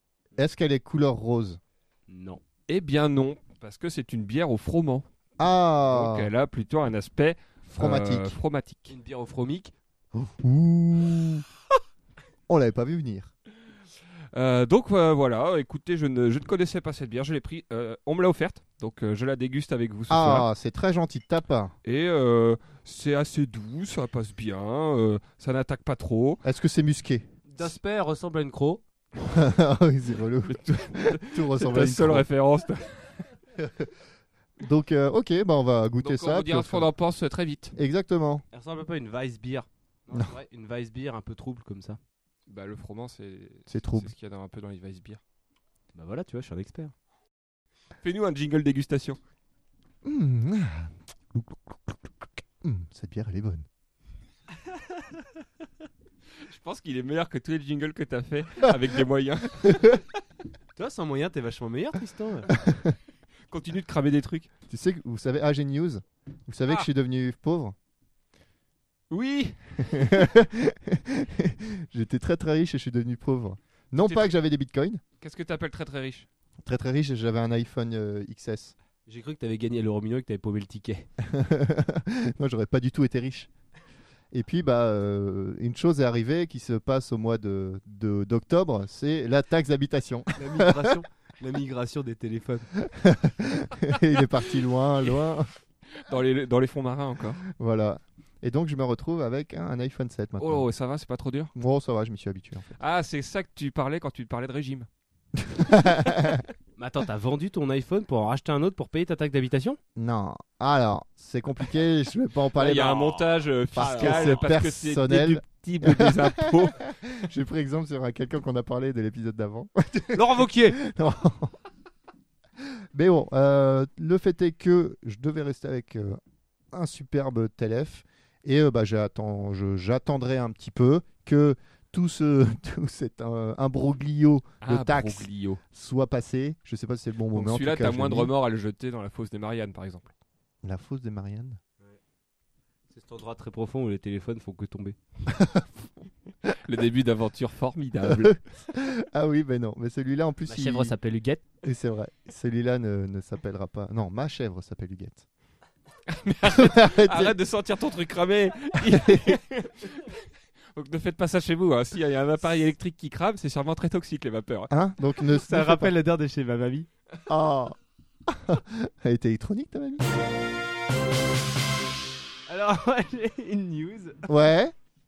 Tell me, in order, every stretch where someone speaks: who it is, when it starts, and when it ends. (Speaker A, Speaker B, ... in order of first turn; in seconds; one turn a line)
Speaker A: 0.4-1.6
Speaker B: 2.1-2.4
Speaker C: 2.7-5.0
Speaker A: 5.4-6.3
Speaker C: 5.9-8.9
Speaker A: 7.7-8.4
Speaker B: 8.9-9.7
Speaker A: 10.1-11.4
Speaker A: 12.5-13.3
Speaker C: 14.3-20.5
Speaker A: 20.1-21.7
Speaker C: 21.8-26.4
Speaker A: 26.4-27.2
Speaker B: 27.5-28.8
Speaker A: 29.2-32.2
Speaker C: 30.4-33.0
Speaker A: 33.6-33.9
Speaker A: 34.6-36.9
Speaker C: 36.0-37.7
Speaker A: 37.8-38.4
Speaker B: 38.5-42.0
Speaker C: 42.5-45.2
Speaker A: 43.7-44.1
Speaker B: 45.9-46.9
Speaker C: 48.0-49.2
Speaker A: 50.0-53.7
Speaker C: 56.4-60.0
Speaker A: 59.6-59.9
Speaker B: 60.8-62.5
Speaker A: 62.5-63.0
Speaker C: 63.5-64.5
Speaker A: 64.7-67.7
Speaker C: 69.1-70.1
Speaker A: 69.8-75.0
Speaker C: 74.0-74.3
Speaker C: 75.2-76.3
Speaker A: 76.6-78.7
Speaker B: 79.0-81.1
Speaker A: 81.2-83.5
Speaker A: 84.3-91.0
Speaker B: 90.4-92.7
Speaker A: 92.8-95.5
Speaker C: 96.0-97.4
Speaker A: 97.5-100.7
Speaker C: 100.4-101.5
Speaker A: 101.5-102.7
Speaker C: 102.8-104.9
Speaker A: 105.4-106.4
Speaker B: 106.8-109.8
Speaker A: 110.0-113.2
Speaker C: 112.5-116.8
Speaker A: 113.7-121.5
Speaker B: 113.8-114.5
Speaker B: 120.1-120.8
Speaker A: 122.6-126.2
Speaker A: 126.7-138.3
Speaker C: 134.6-135.6
Speaker C: 137.3-140.1
Speaker A: 140.6-141.6
Speaker B: 142.9-145.0
Speaker A: 145.3-145.9
Speaker C: 146.6-148.4
Speaker A: 148.0-150.9
Speaker B: 150.4-151.4
Speaker A: 151.6-155.2
Speaker C: 156.1-160.2
Speaker A: 156.5-157.3
Speaker A: 158.8-159.4
Speaker C: 160.7-164.7
Speaker A: 164.7-165.9
Speaker B: 165.3-166.9
Speaker A: 167.3-167.8
Speaker A: 168.3-170.1
Speaker B: 172.5-174.2
Speaker A: 174.2-174.7